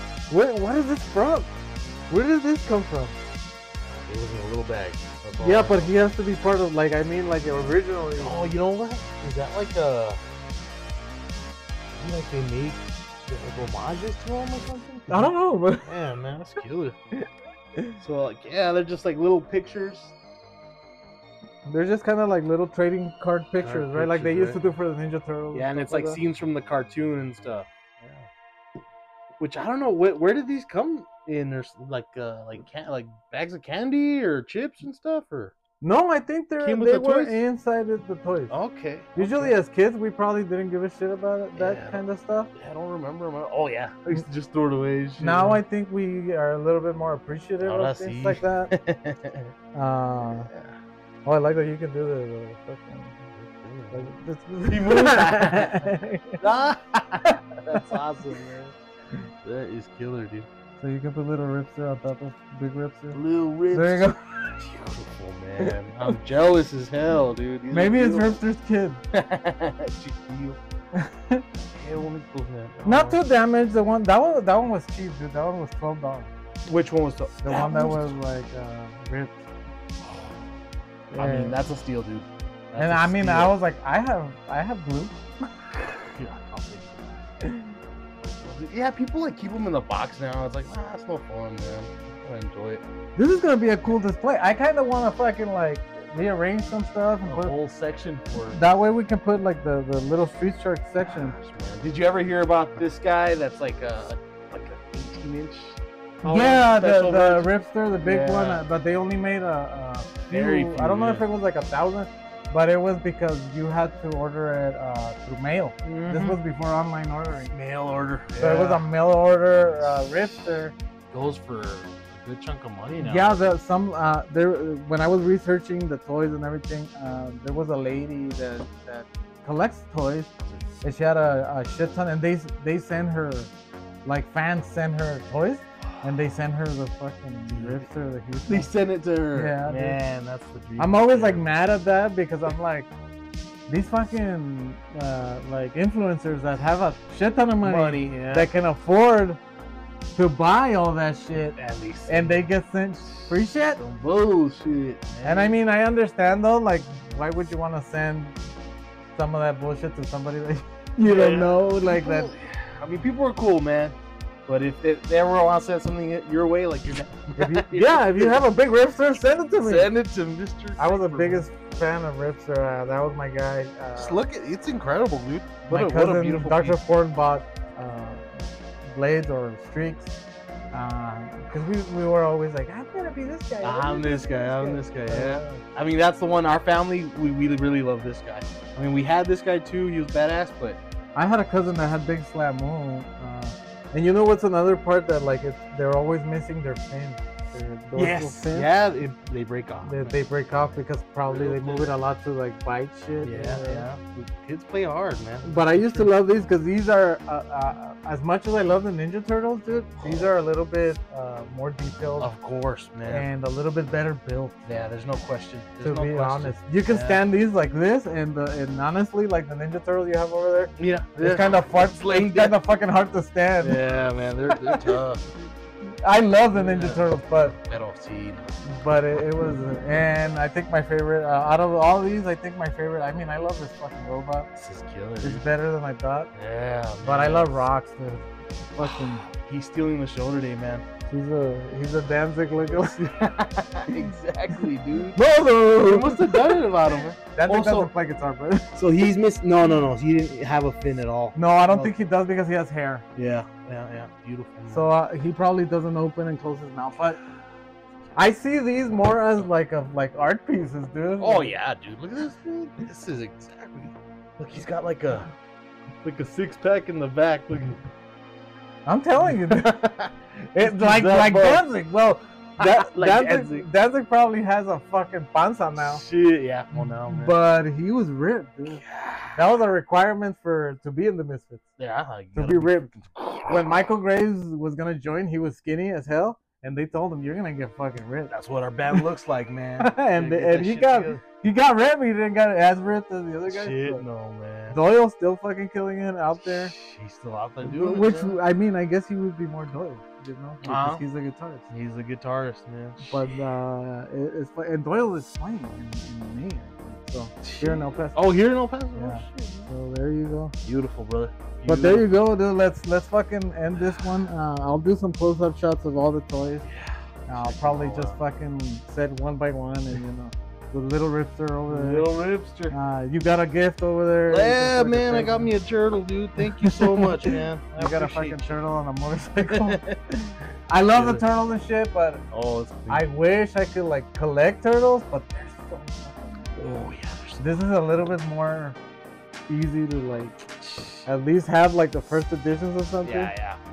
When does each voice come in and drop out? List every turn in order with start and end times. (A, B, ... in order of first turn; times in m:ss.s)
0:00.3-0:01.5 A
0:02.1-0:03.2 A
0:04.0-0:05.9 B
0:05.4-0:08.5 A
0:08.2-0:10.2 B
0:12.0-0:17.0 B
0:15.1-0:15.9 A
0:18.0-0:20.2 B
0:21.6-0:26.2 A
0:23.6-0:24.6 B
0:25.5-0:28.3 B
0:29.4-0:35.5 B
0:35.8-0:38.5 A
0:36.6-0:37.4 B
0:38.5-0:39.6 B
0:39.2-0:42.5 A
0:41.6-0:42.0 B
0:42.5-0:45.6 B
0:45.2-0:48.7 A
0:47.6-0:49.5 B
0:49.8-0:50.5 A
0:50.2-0:50.8 B
0:51.2-0:53.2 A
0:53.3-0:54.1 B
0:53.9-0:56.4 A
0:54.7-0:58.8 B
0:57.2-0:57.8 A
0:59.4-1:00.5 B
1:00.8-1:03.2 A
1:03.1-1:08.4 B
1:03.7-1:04.4 A
1:07.7-1:09.0 A
1:09.1-1:10.6 B
1:11.0-1:11.4 A
1:11.8-1:13.2 B
1:12.8-1:16.3 A
1:16.7-1:18.1 B
1:17.4-1:19.4 A
1:20.0-1:20.3 B
1:21.1-1:21.6 A
1:21.2-1:23.6 B
1:22.8-1:25.2 A
1:26.1-1:27.2 B
1:28.2-1:32.8 B
1:33.2-1:37.6 A
1:37.2-1:38.7 B
1:38.5-1:41.4 A
1:41.0-1:48.6 B
1:46.2-1:57.5 A
1:50.3-1:51.3 B
1:55.8-1:56.4 B
1:57.5-1:58.9 B
1:58.4-2:00.7 A
1:59.8-2:00.4 B
2:01.1-2:03.5 B
2:03.0-2:10.3 A
2:10.4-2:10.7 B
2:10.8-2:13.5 A
2:14.0-2:18.7 A
2:15.8-2:16.1 B
2:17.5-2:17.9 B
2:18.5-2:21.4 B
2:19.3-2:20.0 A
2:20.8-2:22.9 A
2:23.7-2:29.4 A
2:27.6-2:28.5 B
2:30.2-2:31.6 A
2:31.6-2:32.5 B
2:32.1-2:33.8 A
2:33.2-2:35.6 B
2:35.2-2:38.4 A
2:39.2-2:42.3 A
2:41.0-2:48.4 B
2:47.4-2:49.9 A
2:49.6-2:51.5 B
2:50.8-2:54.2 A
2:54.0-2:56.8 B
2:55.7-3:00.1 A
3:00.7-3:05.6 A
3:03.6-3:10.8 B
3:11.2-3:18.7 A
3:18.0-3:20.2 B
3:19.8-3:23.9 A
3:21.3-3:21.9 B
3:23.2-3:26.1 B
3:25.4-3:32.3 A
3:30.0-3:30.3 B
3:32.2-3:33.3 B
3:33.1-3:34.6 A
3:34.6-3:37.3 B
3:35.8-3:43.8 A
3:40.8-3:42.6 B
3:43.6-3:45.2 B
3:46.0-3:47.6 A
3:46.5-3:48.6 B
3:48.6-3:54.5 A
3:54.6-3:55.5 B
3:55.2-3:56.3 A
3:56.3-3:57.7 B
3:57.0-3:59.2 A
3:58.8-4:00.8 B
4:01.1-4:03.0 A
4:02.6-4:05.2 B
4:05.1-4:06.7 A
4:05.8-4:07.9 B
4:07.3-4:08.7 A
4:08.8-4:12.0 B
4:11.4-4:13.0 A
4:13.2-4:14.9 B
4:14.7-4:17.2 A
4:18.2-4:21.6 A
4:21.2-4:25.3 B
4:26.0-4:27.8 B
4:28.9-4:29.8 A
4:29.2-4:31.7 B
4:30.5-4:36.0 A
4:32.6-4:33.7 B
4:35.8-4:37.3 B
4:36.7-4:38.8 A
4:38.7-4:39.6 B
4:39.4-4:41.7 A
4:41.8-4:43.8 B
4:42.4-4:42.9 A
4:43.5-4:48.3 A
4:48.3-4:51.2 B
4:49.8-4:54.0 A
4:53.5-4:54.8 B
4:54.7-4:56.7 A
4:56.4-4:58.4 B
4:57.6-5:01.7 A
5:00.6-5:01.0 B
5:01.7-5:03.2 B
5:03.0-5:08.2 A
5:07.4-5:09.7 B
5:09.0-5:10.6 A
5:10.6-5:12.1 B
5:11.7-5:16.7 A
5:16.6-5:18.2 B
5:17.3-5:22.1 A
5:21.7-5:22.8 B
5:22.7-5:25.6 A
5:24.3-5:28.6 B
5:26.6-5:29.8 A
5:29.4-5:31.2 B
5:30.7-5:32.2 A
5:32.3-5:33.1 B
5:32.9-5:36.6 A
5:36.6-5:37.7 B
5:37.4-5:38.8 A
5:39.5-5:40.4 A
5:40.5-5:41.1 B
5:41.0-5:43.3 A
5:43.0-5:43.6 B